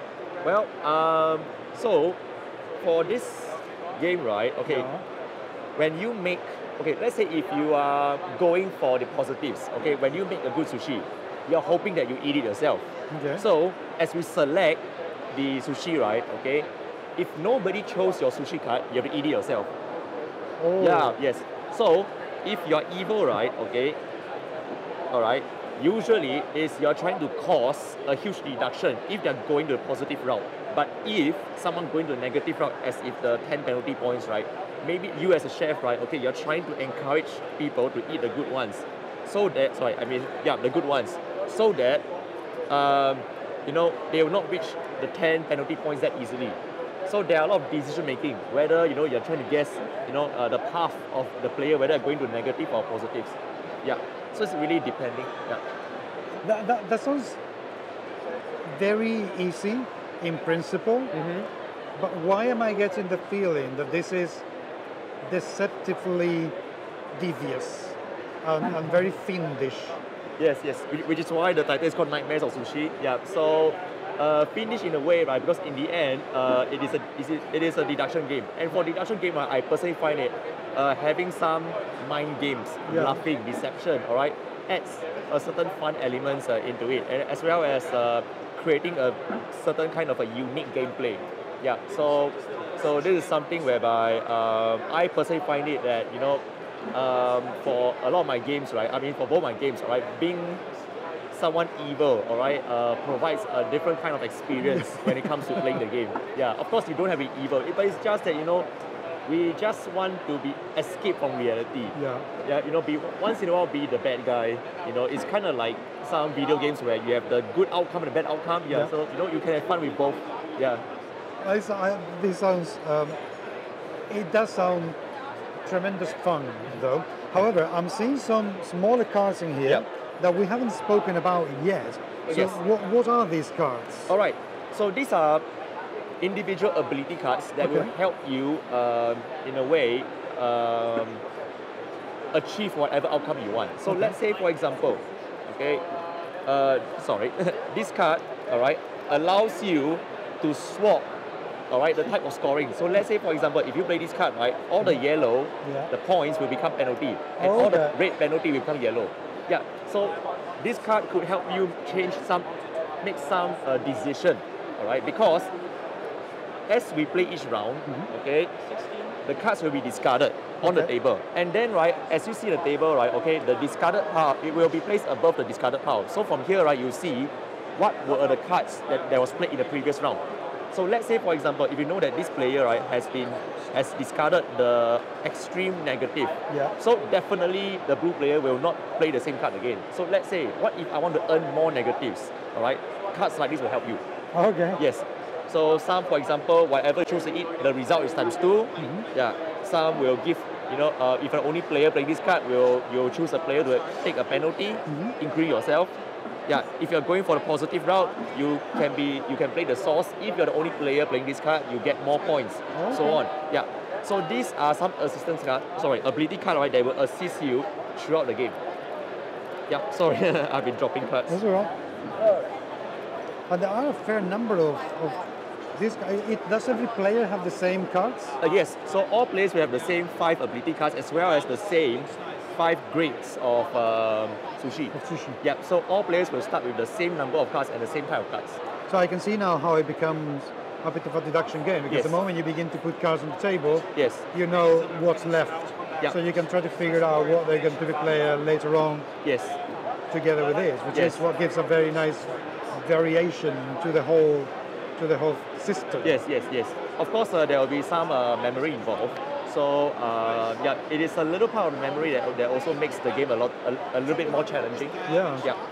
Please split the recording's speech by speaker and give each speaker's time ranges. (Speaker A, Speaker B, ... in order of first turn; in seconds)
Speaker A: 0.4-2.2, 2.8-4.9, 5.8-12.8, 13.4-14.8, 15.3-19.7, 20.8-24.0, 25.1-42.0, 42.7-55.6, 61.1-61.5, 70.4-100.6, 101.3-108.7, 109.2-120.8, 132.3-132.6, 134.1-135.4, 136.2-141.2, 142.3-145.8, 146.4-151.1, 151.7-162.5, 163.0-165.5, 166.7-168.5, 169.2-194.0, 194.8-205.9, 206.5-218.6, 219.7-221.4, 228.4-238.6, 241.9-242.2, 243.9-244.2, 249.2-249.6, 250.9-251.2, 256.0-265.6
Speaker B: 4.7-5.0, 13.1-13.4, 20.6-21.2, 56.4-57.4, 58.7-61.1, 62.0-64.4, 65.2-66.5, 67.1-70.0, 82.9-83.2, 104.6-105.8, 112.0-112.3, 121.4-123.2, 124.1-125.0, 125.7-134.1, 137.6-137.9, 143.9-144.1, 155.6-155.9, 157.4-158.0, 170.6-170.9, 186.5-186.7, 194.3-194.8, 198.8-199.0, 204.9-205.2, 212.7-213.2, 221.3-221.7, 223.5-228.4, 234.9-235.4, 238.9-249.1, 250.1-256.2, 265.1-265.4